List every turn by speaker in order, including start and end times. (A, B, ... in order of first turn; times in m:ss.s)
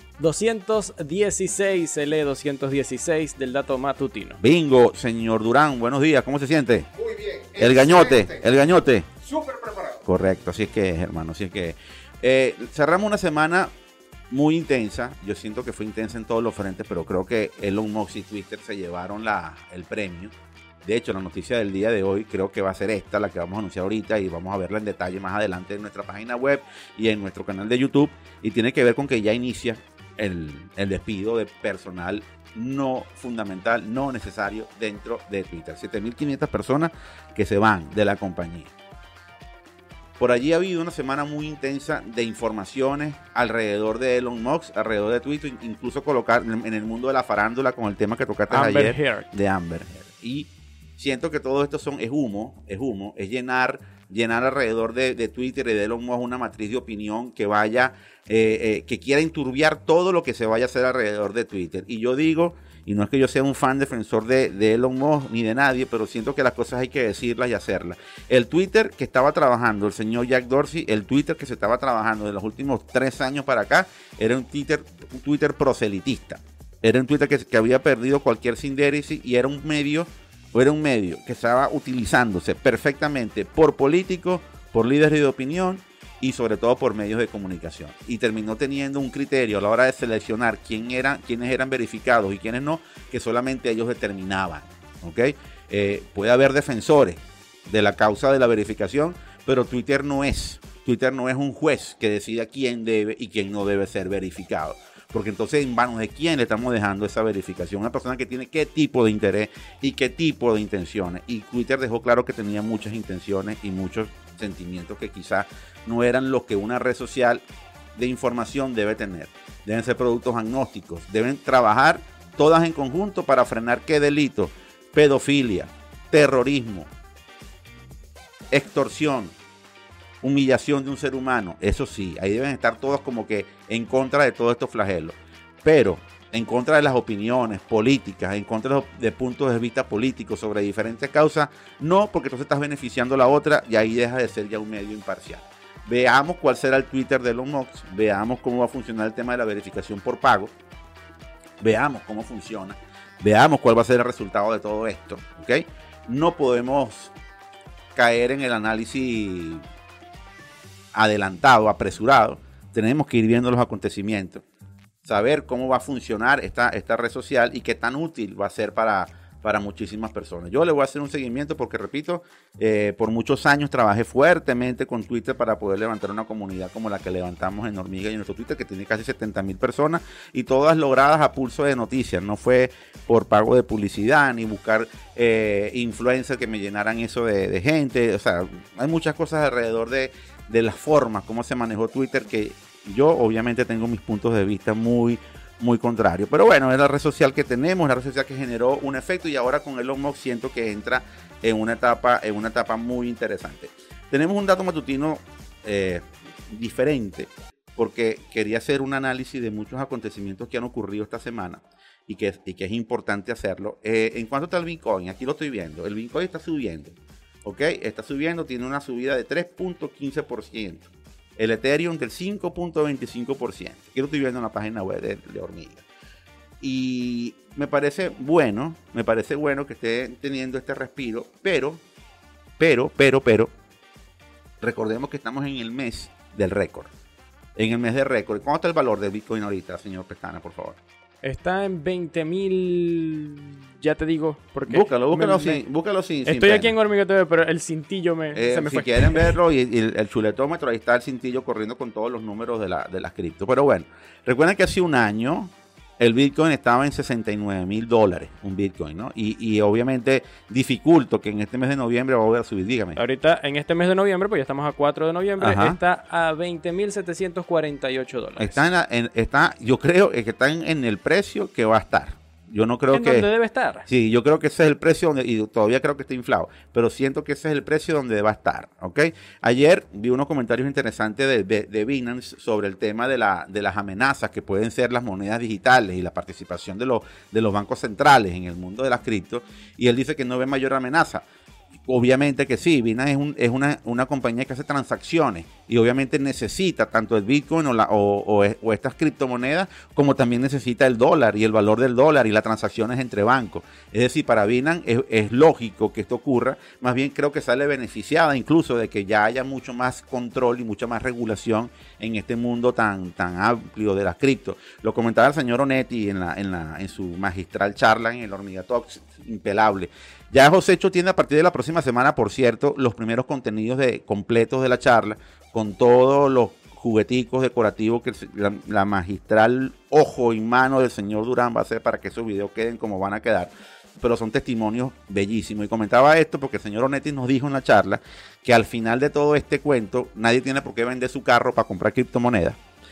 0:00.2-0:04.4 A
0:04.4-0:06.9 B
0:07.0-0:08.3 C
0:07.6-0:09.1 B
0:09.3-0:10.0 C
0:10.0-0:13.7 B
0:14.3-0:20.3 B
0:20.8-0:38.7 B
0:40.2-1:57.4 B
0:48.5-0:49.2 A
1:58.0-2:06.9 B
2:08.5-2:09.3 B
2:10.2-2:30.5 B
2:31.6-2:37.1 B
2:38.0-2:39.6 B
2:40.9-2:44.4 B
2:45.0-3:45.8 B
3:46.6-3:51.8 B
3:52.6-3:53.5 B
3:54.6-3:56.9 B
3:57.6-4:00.8 B
4:01.2-4:05.6 A
4:04.7-4:06.7 B
4:06.3-4:09.4 A
4:08.3-4:23.0 B
4:23.0-4:28.6 A
4:25.4-4:25.8 B
4:28.4-4:33.3 B
4:32.9-4:33.9 A
4:33.9-4:51.2 B
4:51.9-5:42.6 B